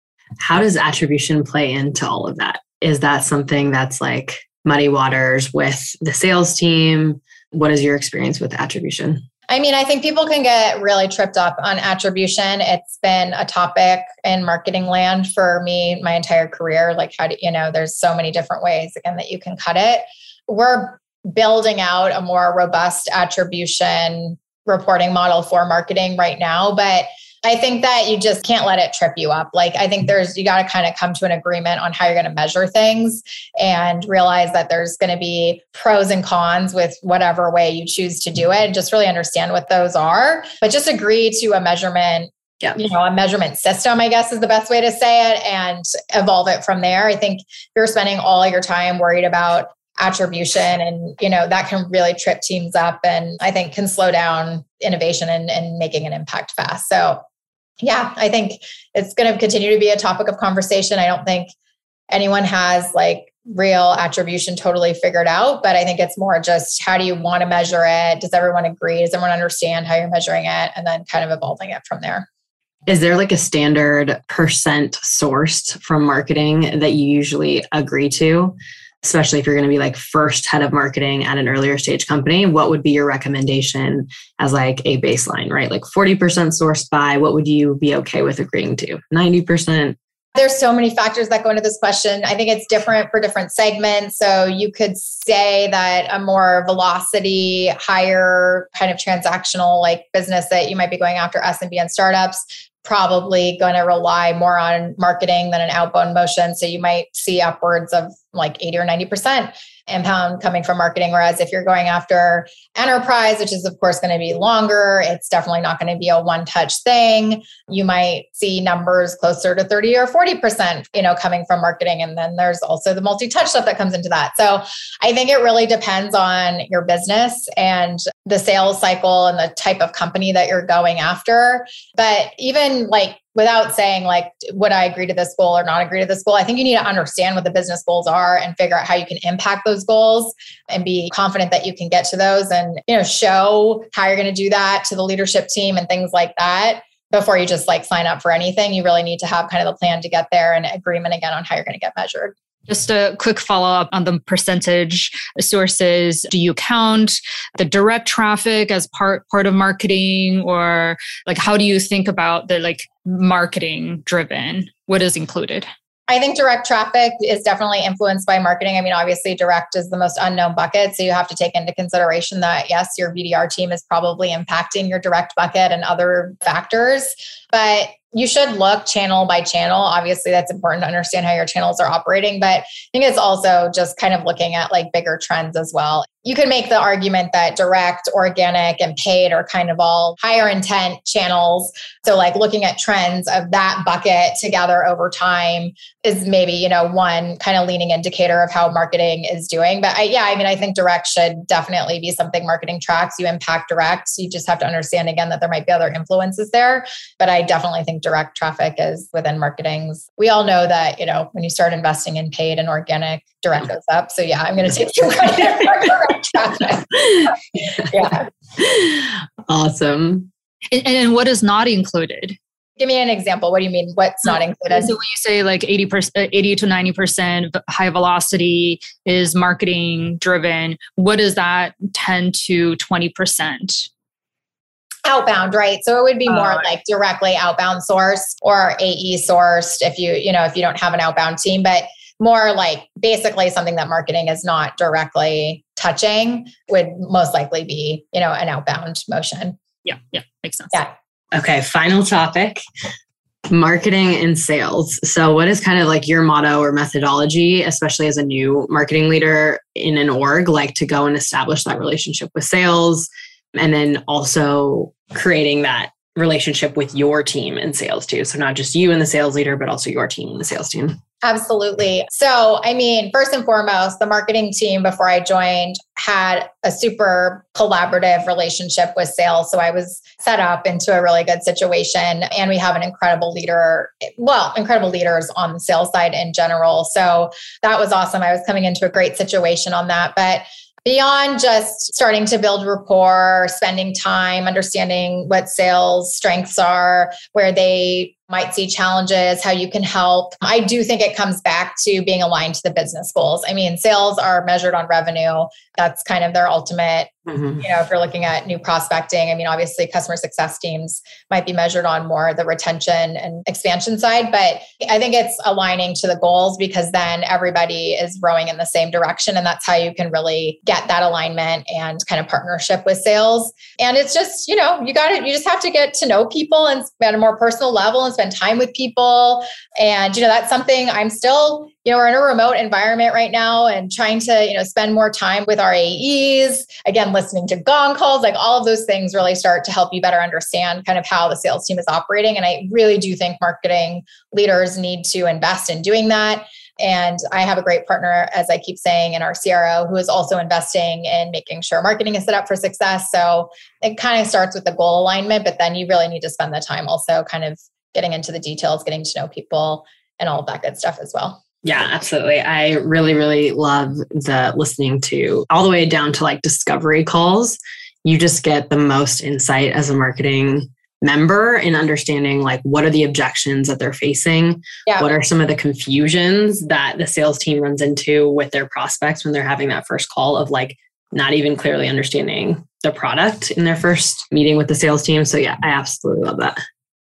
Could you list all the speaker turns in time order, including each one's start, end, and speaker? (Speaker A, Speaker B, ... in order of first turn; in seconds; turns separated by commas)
Speaker A: 0.4-9.2, Speaker B: 9.5-57.2, Speaker B: 57.8-61.5, Speaker B: 62.1-72.3, Speaker A: 72.9-90.0, Speaker B: 90.3-152.3, Speaker C: 152.7-165.7, Speaker B: 166.1-218.2, Speaker A: 217.1-217.8, Speaker A: 218.6-220.3, Speaker C: 220.7-222.4, Speaker B: 222.8-224.9, Speaker C: 224.7-233.9, Speaker B: 235.1-249.6, Speaker C: 236.3-236.7, Speaker C: 249.8-250.8, Speaker A: 251.3-252.6, Speaker A: 253.5-271.0, Speaker B: 271.2-361.4, Speaker A: 361.6-386.6, Speaker B: 374.9-375.1